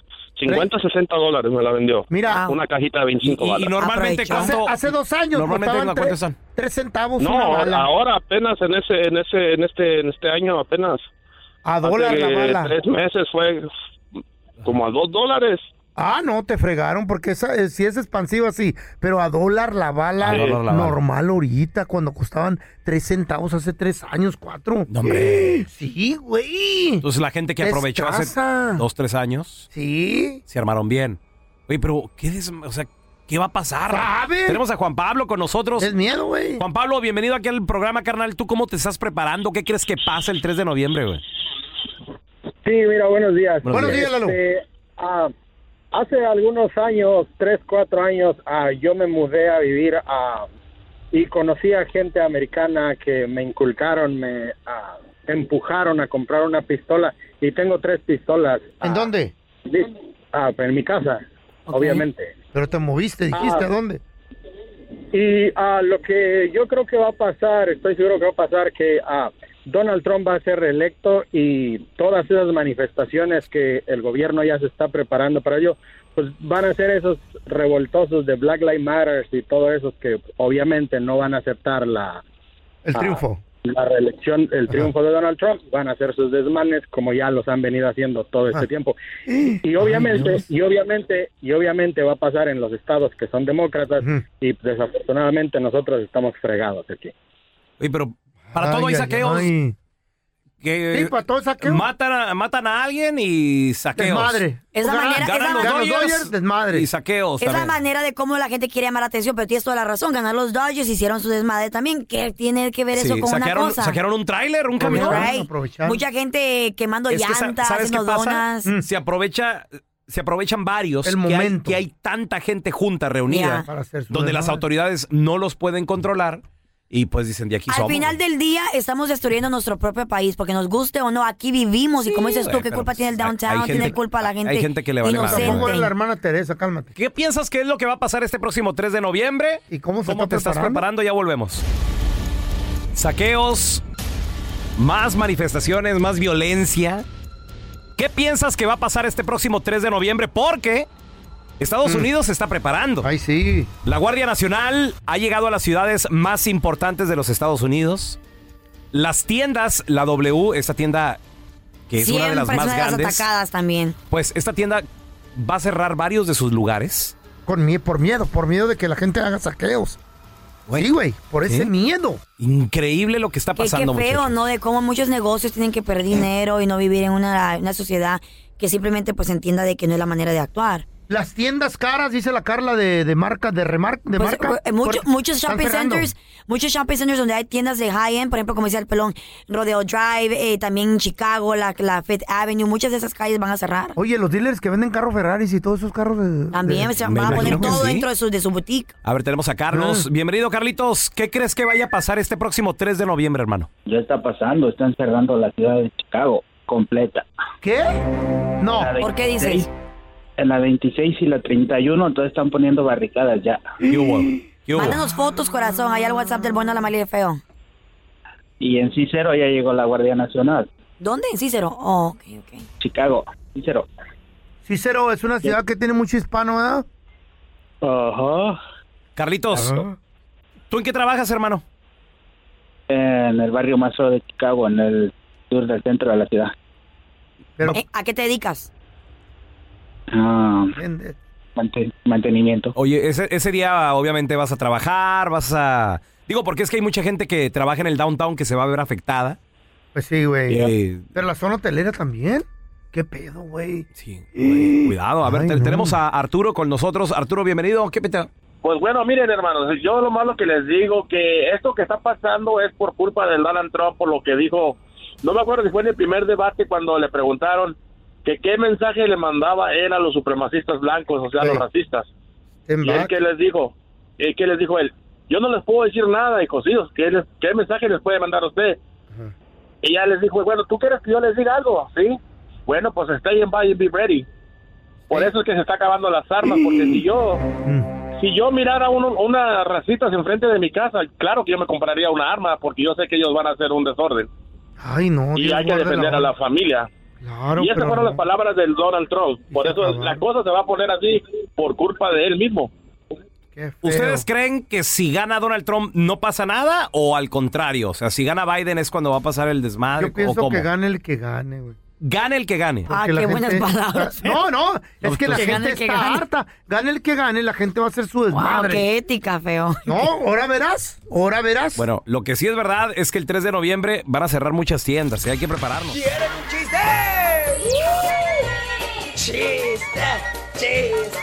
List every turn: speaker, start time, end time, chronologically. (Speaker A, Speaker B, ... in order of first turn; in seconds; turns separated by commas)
Speaker A: 0.3-3.7, Speaker B: 2.1-2.4, Speaker C: 2.3-2.6, Speaker D: 3.2-4.8, Speaker C: 3.7-4.6, Speaker B: 4.3-7.9, Speaker D: 5.3-6.4, Speaker A: 7.2-11.1, Speaker B: 11.6-12.7, Speaker A: 11.8-13.7, Speaker A: 14.6-15.6, Speaker B: 15.9-27.0, Speaker D: 20.2-21.0, Speaker D: 24.9-25.6, Speaker D: 27.0-29.7, Speaker B: 27.6-28.8, Speaker B: 29.7-30.4, Speaker D: 30.5-35.9, Speaker B: 33.9-34.6, Speaker B: 35.8-36.6, Speaker D: 36.6-41.2, Speaker E: 42.6-45.3, Speaker D: 43.6-44.0, Speaker B: 43.7-44.4, Speaker E: 45.9-50.5, Speaker E: 51.1-59.1, Speaker B: 58.8-59.3, Speaker E: 59.6-62.3, Speaker C: 61.7-62.0, Speaker B: 62.5-64.0, Speaker E: 63.3-63.7, Speaker E: 65.1-82.2, Speaker B: 82.8-83.4, Speaker E: 82.9-89.0, Speaker B: 89.3-90.4, Speaker E: 89.6-97.1, Speaker D: 97.8-99.5, Speaker B: 98.5-99.8, Speaker D: 100.6-104.4, Speaker B: 100.9-101.9, Speaker B: 104.0-106.8, Speaker C: 104.7-105.8, Speaker D: 105.1-107.8, Speaker C: 107.4-114.0, Speaker D: 112.9-115.3, Speaker B: 114.8-116.0, Speaker C: 114.9-118.7, Speaker D: 117.1-128.1, Speaker B: 121.0-121.8, Speaker C: 123.3-123.7, Speaker B: 123.6-124.6, Speaker C: 127.7-135.9, Speaker D: 132.1-135.7, Speaker B: 135.1-136.9, Speaker D: 136.9-141.6, Speaker B: 139.7-140.8, Speaker D: 142.9-143.8, Speaker D: 144.8-147.0, Speaker D: 148.0-150.9, Speaker D: 151.6-153.1, Speaker B: 151.8-152.1, Speaker B: 153.0-153.7, Speaker D: 153.8-158.2, Speaker D: 158.9-161.2, Speaker D: 161.9-163.2, Speaker C: 162.0-163.9, Speaker D: 164.1-167.1, Speaker B: 167.4-170.0, Speaker B: 170.7-172.2, Speaker D: 172.4-174.4, Speaker C: 173.6-180.8, Speaker B: 181.1-186.1, Speaker C: 184.1-194.0, Speaker B: 193.9-197.8, Speaker C: 196.5-198.9, Speaker D: 197.0-198.1, Speaker D: 199.0-203.7, Speaker B: 199.7-200.1, Speaker F: 203.9-207.2, Speaker B: 207.6-207.9, Speaker B: 208.6-208.9, Speaker F: 208.8-209.7, Speaker C: 209.0-209.7, Speaker F: 210.4-213.7, Speaker D: 213.9-215.0, Speaker B: 213.9-214.4, Speaker C: 214.7-217.4, Speaker F: 218.6-220.7, Speaker C: 221.0-222.6, Speaker F: 222.8-223.9, Speaker B: 224.6-226.8, Speaker F: 227.8-228.6, Speaker D: 229.2-229.8, Speaker B: 229.5-230.0, Speaker D: 230.7-231.6, Speaker F: 232.9-236.5, Speaker C: 237.7-238.7, Speaker F: 240.1-240.8, Speaker B: 240.8-241.2, Speaker F: 241.6-242.7, Speaker D: 242.8-249.4, Speaker B: 249.9-256.0, Speaker D: 250.5-251.1, Speaker D: 253.9-258.3, Speaker A: 258.6-272.1, Speaker B: 271.4-271.6, Speaker B: 272.7-273.1, Speaker A: 272.8-278.8, Speaker A: 279.8-284.3, Speaker A: 285.1-287.4, Speaker B: 286.4-287.0, Speaker A: 288.2-294.3, Speaker B: 294.8-296.3, Speaker A: 295.3-296.9, Speaker B: 297.2-298.2, Speaker A: 297.5-302.7, Speaker B: 299.5-300.2, Speaker B: 303.5-304.2, Speaker D: 303.8-310.7, Speaker B: 310.0-311.8, Speaker D: 312.0-312.9, Speaker B: 312.9-318.9, Speaker C: 312.9-314.4, Speaker D: 315.0-315.6, Speaker C: 315.1-316.2, Speaker C: 318.3-320.0, Speaker B: 319.9-321.8, Speaker D: 321.8-326.0, Speaker C: 329.5-329.9